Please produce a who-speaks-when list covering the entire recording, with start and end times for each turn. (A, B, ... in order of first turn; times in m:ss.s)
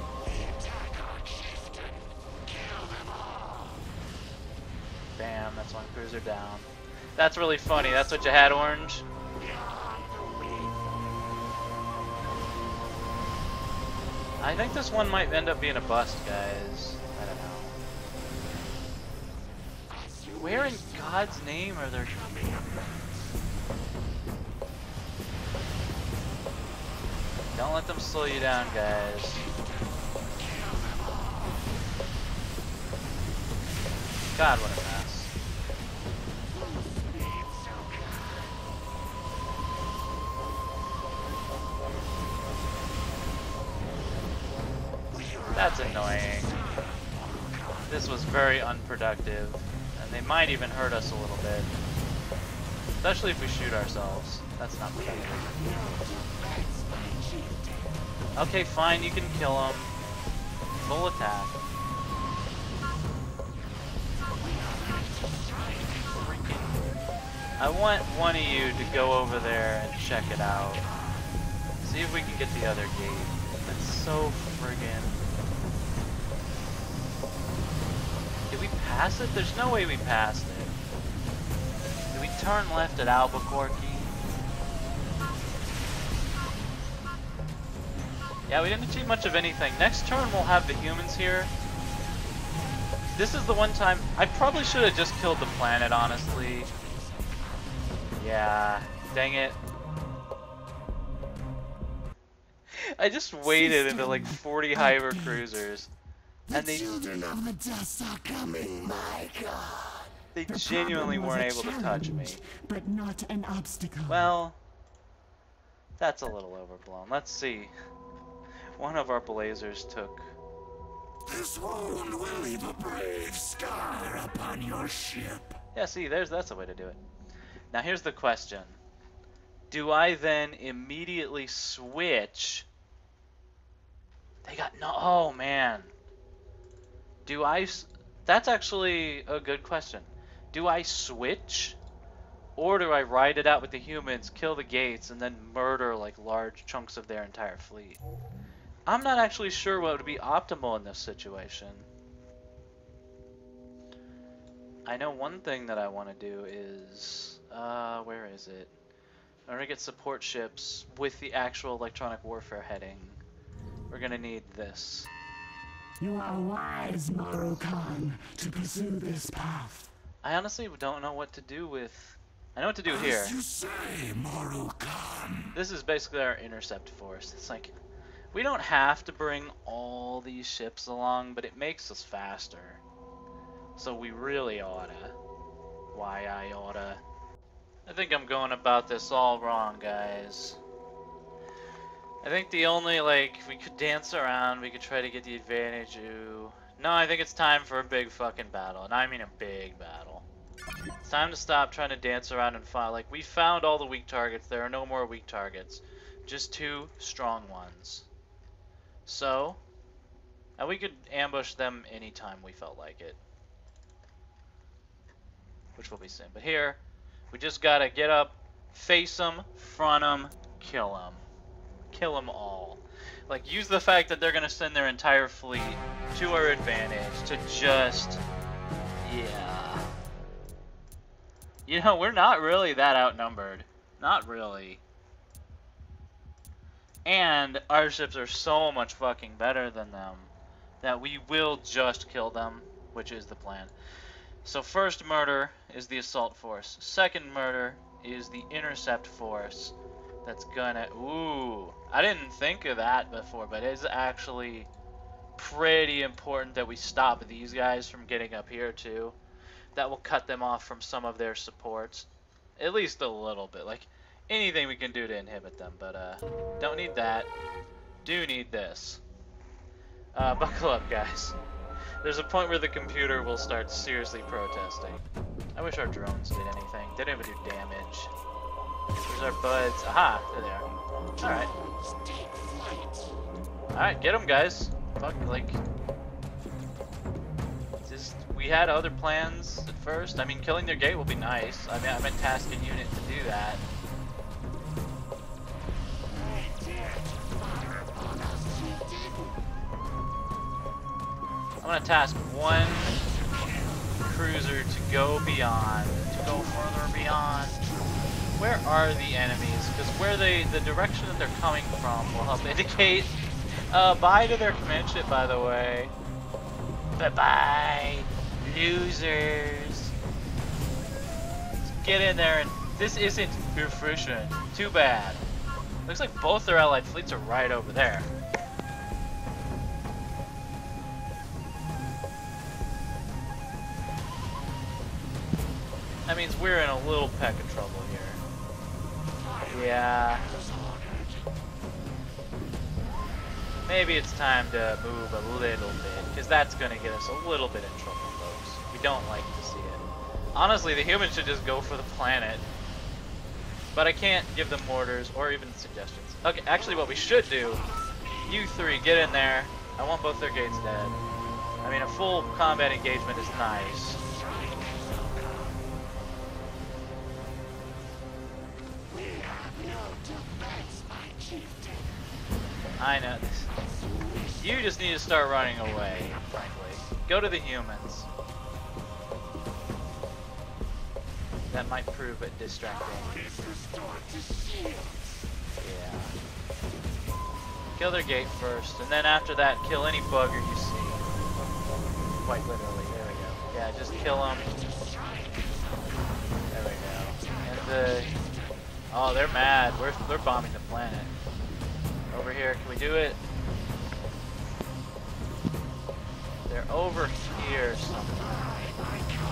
0:00.3-0:03.8 A
0:05.2-0:09.1 B
0:09.4-0:10.8 A
0:14.4-0:17.8 B
0:19.9-0:21.2 A
0:20.4-0:22.4 B
0:22.1-0:23.0 A
0:27.5-0:29.4 B
0:30.6-0:31.0 A
0:34.3-0:35.3 B
0:36.6-0:38.4 A
0:45.1-0:47.6 A
0:45.5-0:46.6 B
0:47.9-0:51.7 B
0:53.0-0:55.6 B
0:55.3-0:57.9 A
0:58.4-0:59.9 B
1:00.8-1:01.6 B
1:04.4-1:06.9 A
1:07.6-1:10.9 B
1:11.8-1:15.2 B
1:18.5-1:20.7 B
1:22.1-1:24.1 B
1:28.5-1:31.5 B
1:33.2-1:36.7 B
1:38.2-1:39.6 B
1:42.7-1:45.9 B
1:43.4-1:45.6 A
1:46.5-1:54.3 A
1:46.5-1:47.0 B
1:50.3-1:52.4 B
1:54.1-1:54.6 B
1:56.0-1:57.7 B
1:58.8-2:00.3 B
2:01.3-2:05.6 A
2:05.7-2:07.0 B
2:07.7-2:08.8 B
2:09.7-2:12.7 B
2:14.4-2:15.9 B
2:17.3-2:21.8 B
2:22.6-2:28.0 B
2:28.9-2:31.9 B
2:34.9-2:38.7 B
2:39.5-2:43.2 B
2:43.9-2:45.1 B
2:46.0-2:49.9 A
2:50.2-2:53.4 B
2:52.9-2:55.6 A
2:55.5-2:57.7 B
2:58.3-3:02.8 B
3:03.8-3:05.2 B
3:05.9-3:07.0 B
3:07.9-3:10.6 B
3:12.2-3:20.3 B
3:21.0-3:28.1 B
3:29.1-3:29.6 B
3:30.6-3:33.2 B
3:35.8-3:36.8 B
3:37.3-3:41.2 B
3:41.9-3:48.2 B
3:49.0-3:49.9 B
3:51.7-3:54.8 B
3:57.0-4:03.7 B
4:04.4-4:14.7 B
4:15.4-4:19.2 B
4:19.8-4:27.3 B
4:28.0-4:29.0 B
4:30.1-4:31.4 B
4:32.0-4:38.1 B
4:39.0-4:40.7 B
4:41.2-4:43.1 A
4:41.2-4:41.5 B
4:43.7-4:45.6 B
4:47.9-4:53.6 B
4:56.1-4:59.4 A
5:01.6-5:03.0 B
5:04.0-5:07.6 B
5:08.4-5:13.2 B
5:13.7-5:15.9 B
5:17.0-5:19.9 B
5:21.6-5:25.2 B
5:25.9-5:28.1 B
5:36.1-5:38.2 B
5:39.2-5:41.3 A
5:39.5-5:40.3 B
5:43.7-5:49.8 B
5:50.4-5:52.5 B
5:53.7-5:57.6 B
5:58.3-6:01.0 B
6:01.6-6:04.0 B
6:04.4-6:05.5 A
6:08.9-6:11.9 A
6:12.8-6:13.5 B
6:13.8-6:14.4 A
6:14.4-6:18.1 B
6:21.5-6:23.3 B
6:23.2-6:25.0 A
6:25.6-6:26.2 B
6:27.8-6:31.1 B
6:32.2-6:34.5 B
6:36.5-6:38.1 B
6:38.9-6:41.1 B
6:42.1-6:43.2 B
6:46.5-6:48.7 B